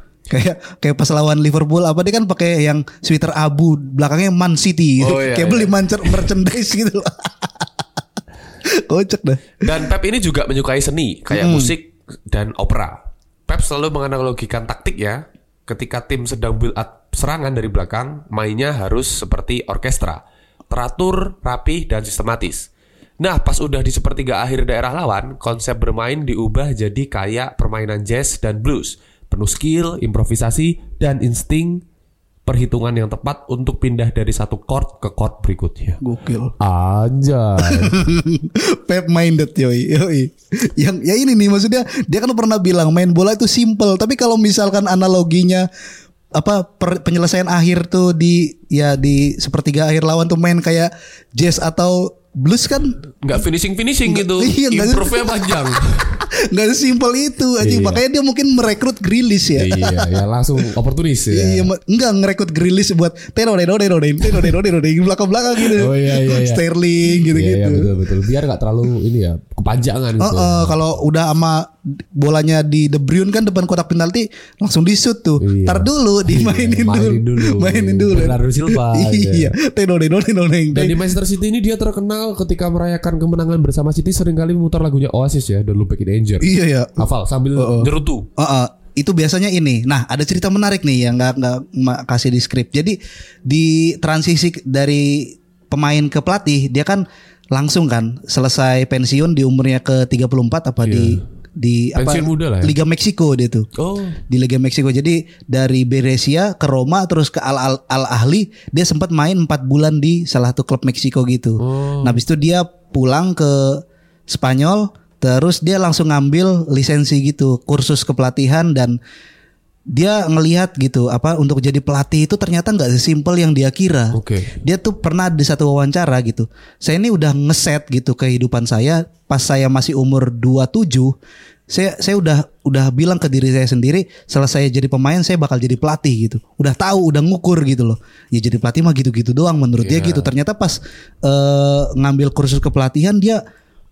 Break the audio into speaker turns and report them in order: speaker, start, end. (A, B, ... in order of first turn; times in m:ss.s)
0:00.3-0:07.7 A
0:05.0-0:06.3 B
0:08.7-0:09.8 A
0:09.6-0:22.7 B
0:11.3-0:11.7 A
0:23.2-0:31.8 B
0:32.5-0:36.0 B
0:36.0-0:36.5 A
0:36.6-0:38.0 B
0:37.6-0:45.7 A
0:46.4-0:53.0 A
0:53.2-0:56.2 B
0:54.1-0:55.6 A
0:56.2-1:00.2 A
0:57.6-0:58.0 B
0:59.6-1:01.7 B
1:01.3-1:07.9 A
1:04.3-1:04.5 B
1:05.6-1:10.8 B
1:10.2-1:21.0 A
1:15.4-1:19.5 B
1:20.7-1:28.3 B
1:26.4-1:27.0 A
1:27.6-1:43.7 A
1:40.8-1:41.2 B
1:42.0-1:42.7 B
1:43.8-1:44.2 B
1:44.3-1:59.0 A
1:51.6-1:52.2 B
1:59.9-2:11.1 A
2:04.1-2:04.5 B
2:11.7-2:23.4 A
2:19.8-2:20.3 B